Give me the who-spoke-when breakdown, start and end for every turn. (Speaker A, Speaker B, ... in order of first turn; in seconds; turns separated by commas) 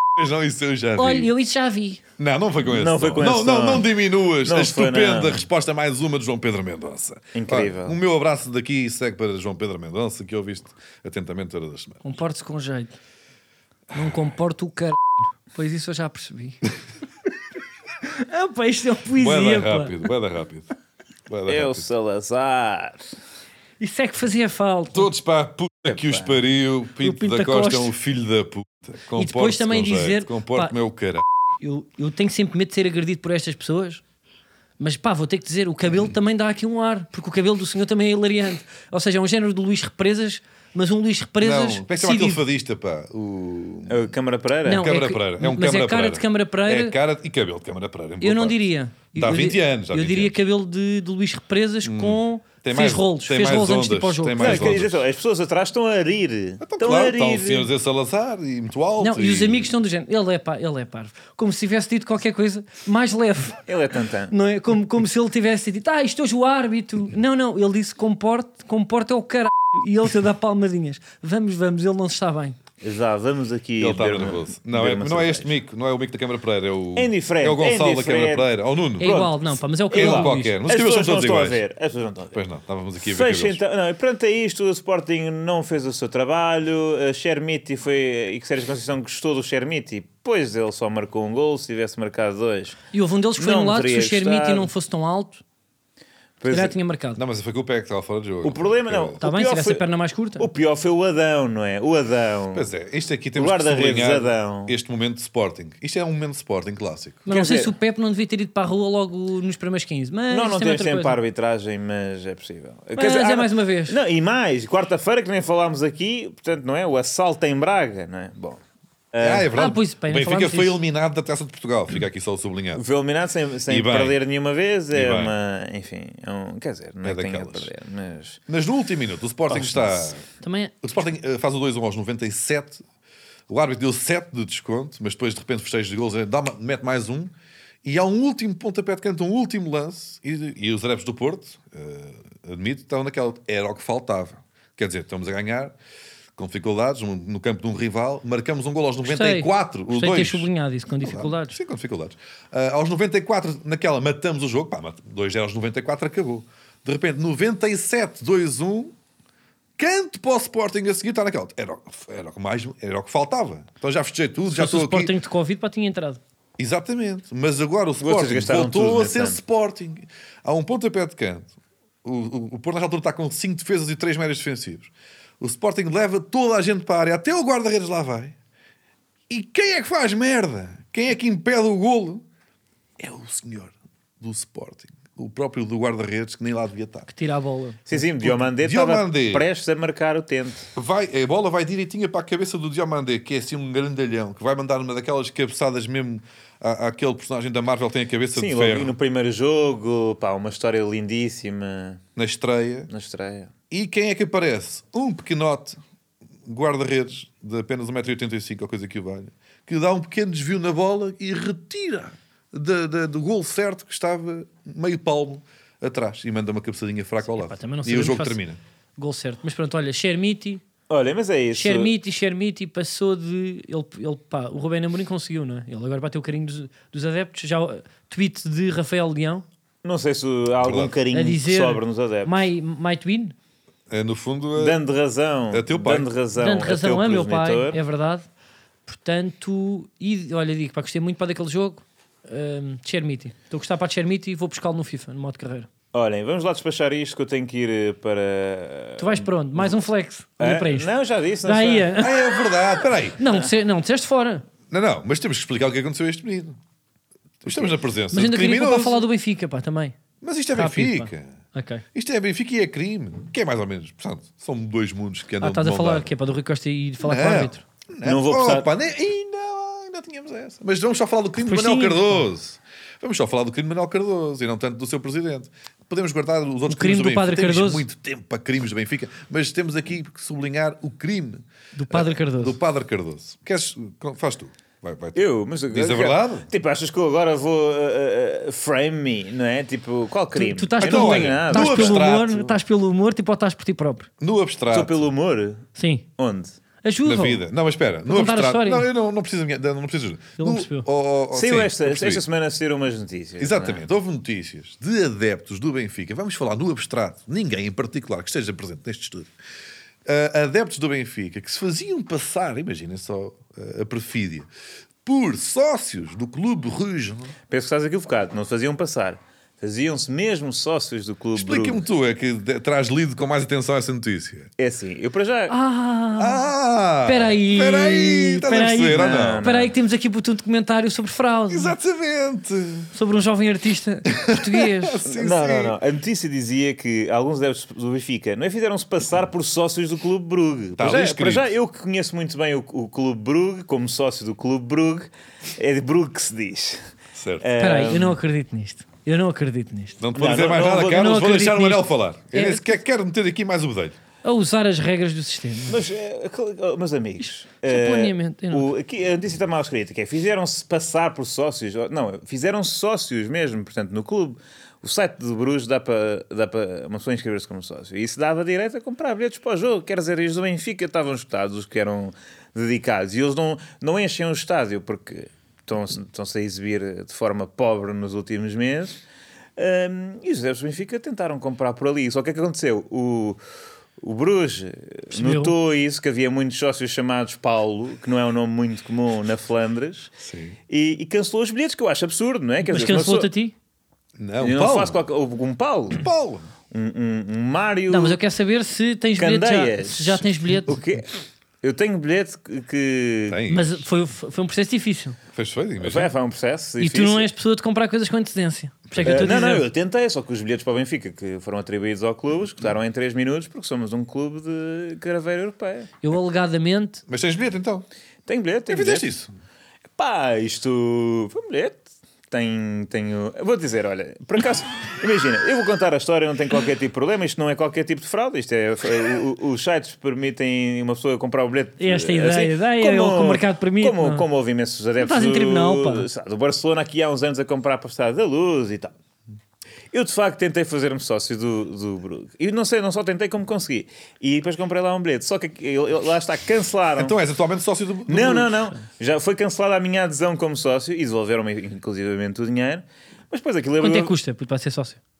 Speaker A: 0.1-1.3, Speaker B: 1.0-2.0, Speaker A: 2.2-12.0, Speaker C: 2.6-5.4, Speaker C: 7.3-8.0, Speaker B: 12.0-12.9, Speaker B: 13.9-16.6, Speaker B: 18.1-20.0, Speaker A: 19.1-20.7, Speaker A: 21.3-21.9, Speaker C: 21.5-23.1, Speaker B: 23.8-25.1, Speaker A: 24.9-31.2, Speaker C: 25.9-26.4, Speaker B: 27.0-27.9, Speaker B: 29.1-30.7, Speaker B: 31.6-34.0, Speaker B: 34.8-42.4, Speaker A: 41.4-44.1, Speaker C: 43.9-44.8, Speaker B: 44.6-47.0, Speaker A: 44.7-50.4, Speaker B: 48.2-54.6, Speaker A: 51.8-55.0, Speaker C: 54.4-57.7, Speaker A: 56.6-59.7, Speaker B: 59.0-63.6, Speaker C: 63.7-64.3, Speaker B: 64.3-72.6, Speaker C: 72.8-75.5, Speaker A: 73.8-79.2, Speaker C: 76.9-82.4, Speaker B: 79.0-80.5, Speaker A: 79.9-81.6, Speaker A: 82.3-83.6, Speaker C: 83.0-92.8, Speaker B: 92.9-95.4, Speaker C: 93.4-94.7, Speaker C: 96.4-96.8, Speaker B: 96.5-97.2, Speaker A: 97.2-99.2, Speaker C: 98.4-99.8, Speaker B: 99.2-100.5, Speaker C: 100.4-102.7, Speaker A: 102.5-107.2, Speaker C: 103.3-104.7, Speaker B: 107.2-111.2, Speaker C: 107.3-107.7, Speaker C: 110.3-118.6, Speaker B: 113.0-114.0, Speaker C: 119.1-119.5, Speaker A: 119.2-122.8, Speaker B: 119.5-120.8, Speaker C: 122.7-128.4, Speaker A: 123.7-124.2, Speaker A: 124.9-125.3, Speaker A: 127.0-127.7, Speaker A: 128.5-130.2, Speaker B: 130.2-130.7, Speaker A: 130.8-132.8, Speaker A: 133.5-137.3, Speaker A: 137.8-145.7, Speaker A: 146.3-150.5, Speaker B: 149.0-151.6, Speaker A: 151.0-158.9, Speaker A: 159.8-165.1, Speaker B: 164.5-166.2, Speaker A: 166.6-178.3, Speaker C: 168.0-169.4, Speaker A: 179.3-182.2, Speaker A: 183.0-187.1, Speaker B: 187.1-187.8, Speaker C: 187.9-190.7, Speaker A: 187.9-189.4, Speaker A: 190.7-198.9, Speaker C: 198.3-202.0, Speaker A: 202.2-202.9, Speaker C: 202.9-203.5, Speaker A: 203.7-205.8, Speaker A: 206.4-218.6, Speaker B: 217.2-218.4, Speaker B: 219.0-220.6, Speaker C: 220.9-221.9, Speaker B: 221.5-229.4, Speaker C: 229.8-232.4, Speaker A: 230.6-230.9, Speaker B: 231.1-233.3, Speaker A: 233.9-234.8, Speaker C: 234.5-237.8, Speaker A: 235.5-236.1, Speaker B: 236.4-238.3, Speaker B: 238.9-245.7, Speaker C: 245.9-249.8, Speaker B: 249.0-250.9, Speaker C: 250.4-252.1, Speaker B: 251.4-252.2, Speaker A: 252.0-253.2, Speaker B: 253.2-254.4, Speaker A: 254.7-256.6, Speaker A: 257.4-259.1, Speaker C: 257.4-257.7, Speaker B: 258.1-260.0, Speaker A: 260.2-261.4, Speaker B: 260.5-261.8, Speaker A: 261.9-266.1, Speaker B: 265.4-267.6, Speaker A: 267.0-286.5, Speaker C: 268.0-268.7, Speaker B: 271.4-272.2, Speaker B: 276.7-277.8, Speaker B: 281.7-282.6, Speaker C: 285.1-292.4, Speaker B: 290.3-294.1, Speaker A: 290.8-292.4, Speaker A: 294.2-295.1, Speaker C: 294.7-296.6, Speaker B: 295.8-296.0, Speaker B: 296.8-297.4, Speaker A: 297.0-302.2, Speaker B: 298.1-298.9, Speaker B: 300.4-300.9, Speaker C: 301.3-303.8, Speaker A: 303.4-309.3, Speaker A: 310.0-314.5, Speaker A: 315.0-317.3, Speaker C: 317.5-321.8, Speaker A: 321.3-324.5, Speaker C: 324.6-325.5, Speaker B: 325.5-326.5, Speaker A: 326.2-329.4, Speaker B: 327.0-331.7, Speaker C: 328.9-329.7, Speaker A: 331.5-332.9, Speaker B: 332.9-335.0, Speaker A: 334.1-335.8, Speaker C: 335.1-346.8, Speaker A: 340.8-341.5, Speaker A: 347.1-347.5, Speaker C: 347.4-348.2, Speaker B: 347.6-350.0, Speaker A: 350.0-354.0, Speaker C: 350.1-351.1, Speaker B: 350.8-352.8, Speaker B: 354.2-355.8, Speaker C: 355.7-379.0, Speaker B: 357.2-358.7, Speaker C: 379.6-383.4, Speaker C: 384.0-390.1, Speaker B: 385.1-385.5, Speaker A: 390.2-390.6, Speaker C: 390.7-393.3, Speaker B: 392.6-393.5, Speaker A: 394.2-395.0, Speaker C: 394.4-396.1, Speaker A: 395.9-396.5, Speaker C: 396.7-398.2, Speaker B: 397.9-400.8, Speaker C: 399.2-401.1, Speaker C: 401.6-403.4, Speaker A: 403.3-403.8, Speaker B: 403.5-405.2, Speaker A: 405.3-406.1, Speaker C: 405.8-407.3, Speaker B: 406.8-409.6, Speaker A: 408.9-409.4, Speaker C: 409.0-415.9, Speaker B: 416.0-417.0, Speaker A: 417.1-417.9, Speaker C: 418.3-419.1, Speaker A: 418.7-419.3, Speaker C: 420.0-438.9, Speaker B: 431.8-434.2, Speaker B: 435.0-436.1, Speaker C: 439.9-447.1, Speaker A: 447.0-448.7, Speaker C: 448.1-454.1, Speaker B: 453.8-455.0